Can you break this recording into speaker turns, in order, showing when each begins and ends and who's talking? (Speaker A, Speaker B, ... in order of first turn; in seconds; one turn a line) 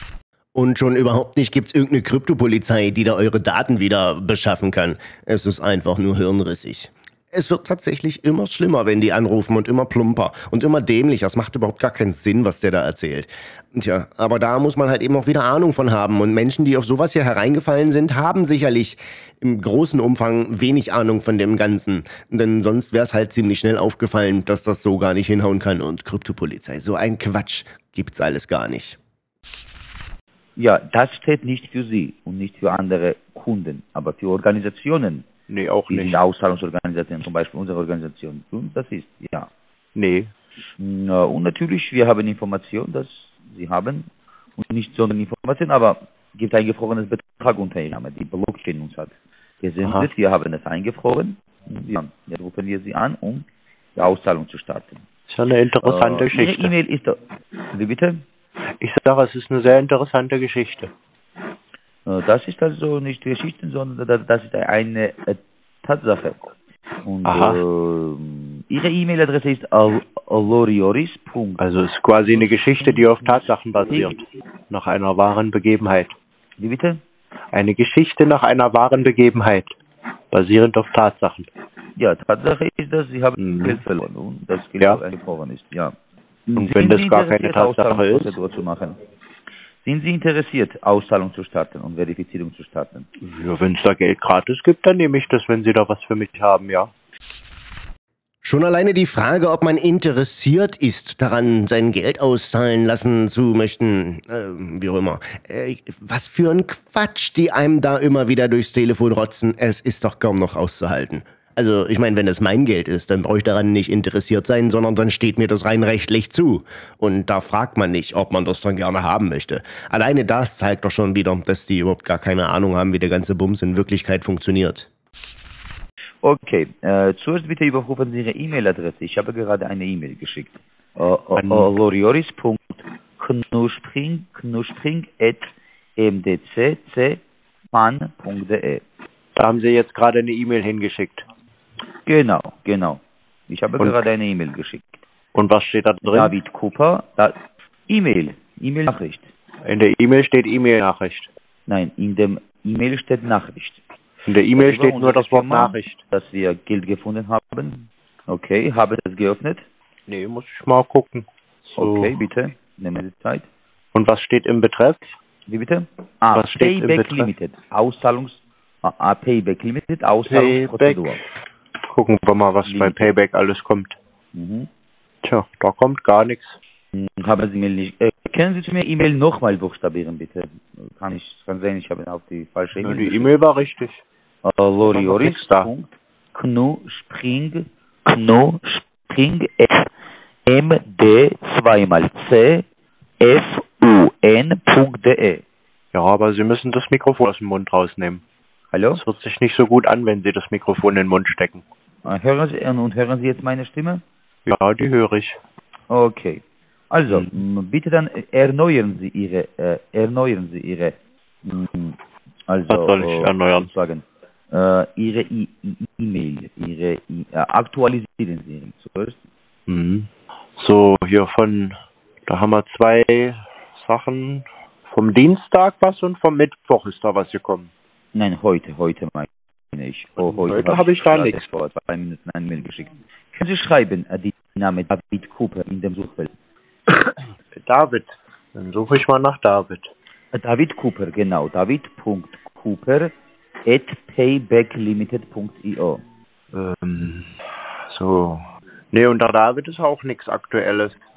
Speaker A: 0.5-29.0
Speaker B: 30.6-35.3
Speaker C: 35.5-36.2
Speaker B: 35.9-39.5
Speaker C: 39.9-40.3
Speaker B: 40.8-55.0
Speaker C: 49.8-50.1
Speaker C: 55.3-56.7
Speaker B: 55.8-57.2
Speaker B: 57.7-58.2
Speaker C: 58.8-60.9
Speaker B: 62.0-71.6
Speaker C: 67.2-67.6
Speaker C: 71.6-76.1
Speaker B: 72.3-74.2
Speaker B: 76.6-77.0
Speaker C: 77.5-79.7
Speaker C: 80.3-81.5
Speaker B: 82.0-85.9
Speaker C: 83.4-83.8
Speaker B: 86.5-89.0
Speaker C: 86.5-88.3
Speaker B: 89.8-93.1
Speaker C: 93.2-96.9
Speaker A: 98.4-124.9
Speaker B: 126.2-137.2
Speaker C: 131.3-131.7
Speaker B: 137.7-138.8
Speaker C: 139.3-141.2
Speaker B: 142.1-145.0
Speaker C: 145.3-146.3
Speaker B: 146.1-149.3
Speaker C: 149.6-151.3
Speaker B: 151.7-153.8
Speaker C: 154.2-156.0
Speaker B: 154.5-159.6
Speaker C: 160.1-161.2
Speaker B: 161.7-163.5
Speaker C: 161.8-162.1
Speaker C: 163.9-165.1
Speaker B: 165.5-171.2
Speaker C: 166.3-167.3
Speaker C: 170.3-171.2
Speaker C: 171.9-173.9
Speaker B: 172.6-173.1
Speaker B: 174.3-174.7
Speaker C: 175.2-176.6
Speaker B: 176.9-183.3
Speaker C: 182.8-184.0
Speaker B: 184.4-189.9
Speaker C: 184.8-185.7
Speaker B: 190.4-192.6
Speaker B: 193.2-195.4
Speaker C: 195.9-198.2
Speaker B: 198.7-199.0
Speaker C: 198.9-201.6
Speaker B: 202.0-204.0
Speaker C: 204.4-205.4
Speaker B: 205.9-219.2
Speaker C: 212.7-213.7
Speaker C: 219.7-221.8
Speaker C: 222.3-227.7
Speaker B: 228.1-236.3
Speaker C: 230.2-231.4
Speaker C: 236.9-239.9
Speaker B: 240.3-243.1
Speaker B: 243.6-246.0
Speaker C: 246.5-247.3
Speaker C: 247.9-251.0